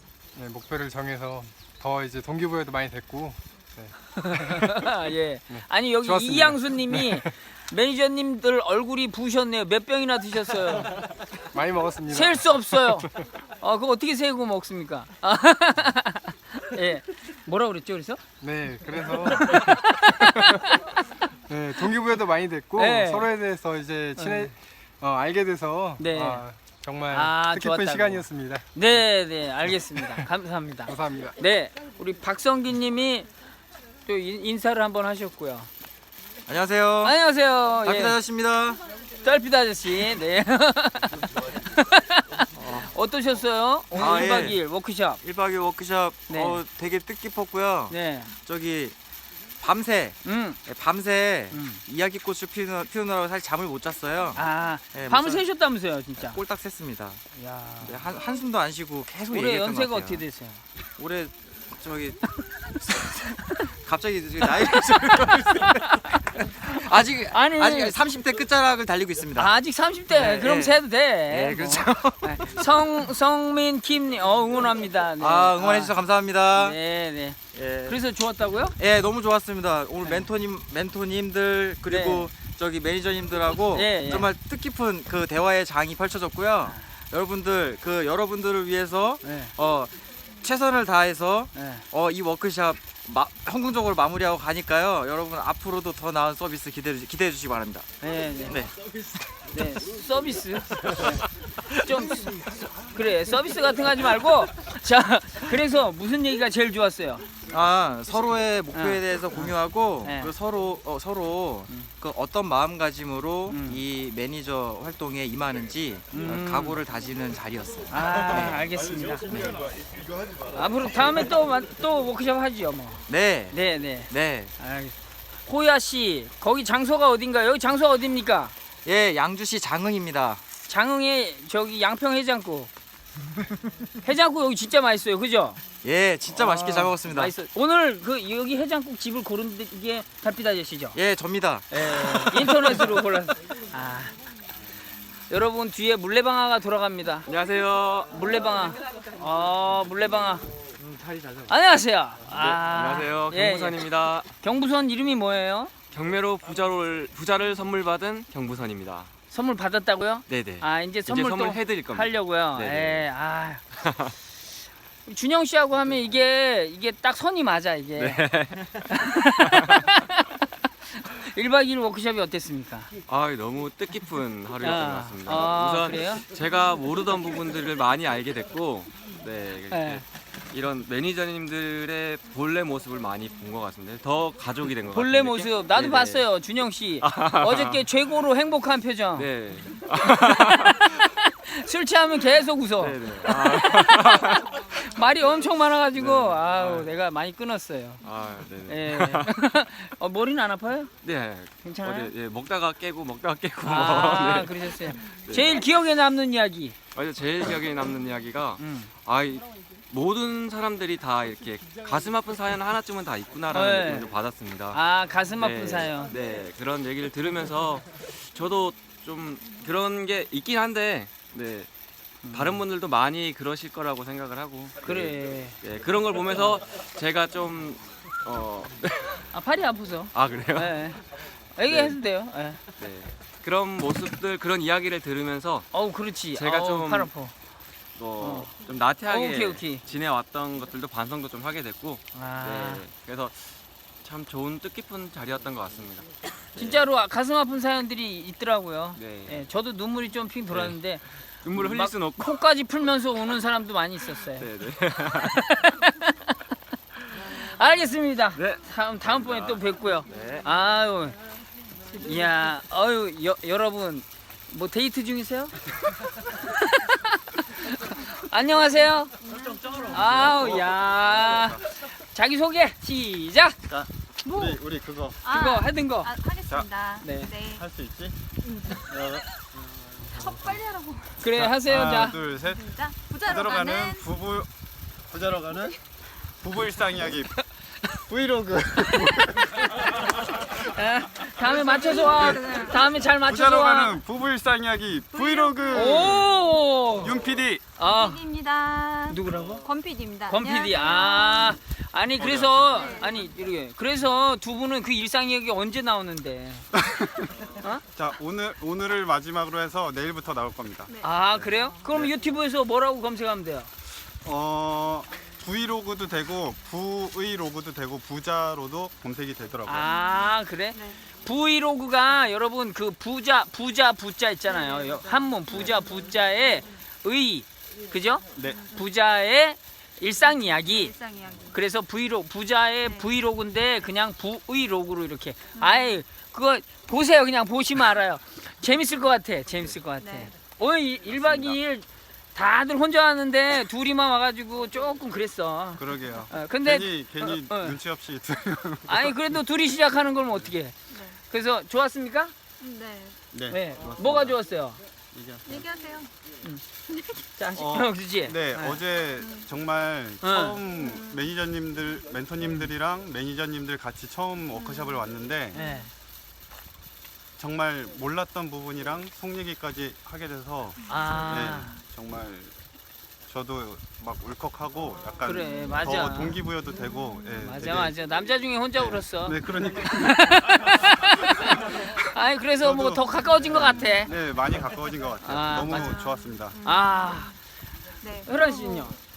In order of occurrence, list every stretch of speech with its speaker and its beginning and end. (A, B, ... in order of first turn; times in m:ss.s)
0:00.4-0:04.8 A
0:04.2-0:11.0 B
0:05.5-0:07.3 A
0:11.5-0:13.1 A
0:12.1-0:18.2 B
0:18.4-0:20.6 A
0:19.1-0:20.8 B
0:21.5-0:28.7 A
0:22.8-0:23.3 B
0:24.2-0:24.5 B
0:26.0-0:26.4 B
0:27.1-0:33.3 B
0:30.9-0:31.4 A
0:34.1-0:35.7 B
0:36.5-0:37.2 C
0:37.0-0:38.2 B
0:37.8-0:38.8 C
0:39.2-0:45.2 B
0:44.0-0:44.6 C
0:45.2-0:48.9 C
0:46.3-0:46.6 B
0:47.9-0:48.3 B
0:49.6-0:55.5 C
0:50.2-0:50.6 B
0:51.5-0:51.8 B
0:54.4-0:56.4 B
0:56.2-0:57.2 C
0:57.4-0:58.2 B
0:57.8-1:00.2 C
0:59.3-1:00.6 B
1:01.0-1:02.2 C
1:02.8-1:06.0 C
1:04.6-1:06.0 B
1:06.6-1:09.5 C
1:07.3-1:08.0 B
1:09.4-1:16.0 B
1:10.2-1:12.4 C
1:15.2-1:16.8 C
1:16.5-1:18.8 B
1:17.5-1:18.0 C
1:18.8-1:37.8 C
1:20.0-1:20.3 B
1:21.9-1:22.3 B
1:23.7-1:24.3 B
1:29.2-1:29.5 B
1:31.6-1:31.8 B
1:38.0-1:38.6 B
1:39.5-1:47.3 B
1:47.5-1:58.6 C
1:48.7-1:50.3 B
1:53.5-1:53.8 B
1:56.1-1:56.8 B
1:57.9-1:59.6 B
2:00.5-2:05.0 B
2:03.1-2:03.6 C
2:04.1-2:04.5 C
2:05.5-2:08.5 B
2:08.8-2:10.4 C
2:10.7-2:12.7 B
2:14.0-2:15.6 B
2:15.8-2:17.3 C
2:16.3-2:21.0 B
2:21.0-2:21.6 C
2:21.7-2:24.2 B
2:25.3-2:27.3 B
2:27.3-2:28.2 D
2:28.1-2:30.5 B
2:30.8-2:31.5 D
2:31.5-2:35.7 B
2:32.3-2:34.3 D
2:35.9-2:39.1 D
2:39.3-2:43.6 B
2:40.3-2:43.1 D
2:43.8-2:44.1 D
2:45.1-2:48.2 B
2:48.0-2:49.8 D
2:48.9-2:50.4 B
2:51.0-2:52.9 B
2:53.1-3:06.3 D
2:54.6-2:56.2 B
2:59.7-3:00.0 B
3:04.9-3:09.3 B
3:07.0-3:07.8 D
3:09.2-3:10.9 D
3:11.0-3:18.0 B
3:12.8-3:14.5 D
3:16.0-3:16.9 D
3:18.0-3:19.3 D
3:18.6-3:20.9 B
3:21.0-3:25.6 D
3:21.6-3:22.1 B
3:23.6-3:26.8 B
3:27.0-3:34.8 D
3:28.6-3:28.9 B
3:33.5-3:34.1 B
3:34.7-3:36.1 B
3:35.4-3:41.7 D
3:42.2-3:42.6 B
3:42.3-3:49.3 D
3:44.8-3:45.6 B
3:49.3-3:51.0 B
3:50.1-3:50.8 D
3:51.6-3:52.6 B
3:51.7-3:52.0 D
3:52.8-3:55.7 D
3:55.7-3:57.3 B
3:56.4-3:57.1 D
3:58.0-4:06.8 D
3:58.2-3:58.6 B
3:59.1-3:59.8 B
4:02.1-4:02.8 B
4:06.6-4:14.5 B
4:09.0-4:09.4 D
4:10.5-4:10.8 D
4:11.4-4:12.3 D
4:14.4-4:15.5 D
4:15.3-4:16.2 B
4:17.2-4:21.2 B
4:18.4-4:20.5 D
4:22.0-4:25.6 B
4:26.1-4:29.2 B
4:29.3-4:30.0 E
4:29.8-4:33.6 B
4:33.7-4:35.2 F
4:34.2-4:34.6 E
4:35.2-4:37.6 E
4:35.3-4:36.1 B
4:37.0-4:37.3 B
4:37.5-4:38.2 F
4:38.4-4:38.9 E
4:38.7-4:40.6 F
4:40.1-4:41.2 E
4:41.2-4:42.2 B
4:41.4-4:44.5 F
4:42.4-4:44.0 E
4:45.1-4:45.8 F
4:46.4-4:47.3 F
4:48.1-4:49.5 F
4:50.5-4:54.0 B
4:51.4-4:52.8 E
4:52.2-4:52.6 F
4:53.1-4:56.3 F
4:55.1-4:56.0 E
4:55.7-4:57.2 B
4:57.0-4:57.6 F
4:57.8-4:58.3 B
4:57.8-5:01.6 E
4:59.1-4:59.7 B
5:00.3-5:06.7 B
5:02.2-5:02.9 F
5:02.7-5:03.3 E
5:06.7-5:12.2 F
5:10.9-5:11.8 E
5:11.0-5:13.7 B
5:14.2-5:19.9 F
5:19.7-5:30.9 B
5:19.9-5:21.0 E
5:24.5-5:26.7 E
5:28.4-5:28.6 F
5:28.5-5:28.9 E
5:30.2-5:31.6 E
5:31.5-5:47.8 B
5:32.8-5:33.1 E
5:35.6-5:36.0 E
5:40.0-5:40.3 E
5:45.8-5:49.2 F
5:48.9-5:52.3 B
5:50.9-5:51.2 E
5:52.6-5:53.2 E
5:53.3-5:54.4 F
5:53.5-5:54.8 B
5:55.1-5:55.7 F
5:55.4-5:56.1 E
5:56.9-5:57.2 E
5:57.3-5:58.8 B
5:57.5-6:05.6 F
5:59.2-5:59.5 E
6:00.2-6:00.6 B
6:00.8-6:01.3 E
6:04.5-6:05.0 E
6:05.5-6:05.9 B
6:05.6-6:05.9 E
6:07.4-6:12.5 F
6:10.9-6:11.8 B
6:13.3-6:17.9 F
6:15.2-6:16.4 B
6:17.0-6:17.4 E
6:17.4-6:19.4 B
6:18.8-6:20.9 F
6:19.9-6:21.5 B
6:21.5-6:22.0 F
6:22.1-6:24.1 B
6:22.6-6:26.6 F
6:25.2-6:26.0 B
6:25.7-6:27.3 E
6:26.6-6:27.3 B
6:28.0-6:29.0 E
6:28.2-6:29.0 B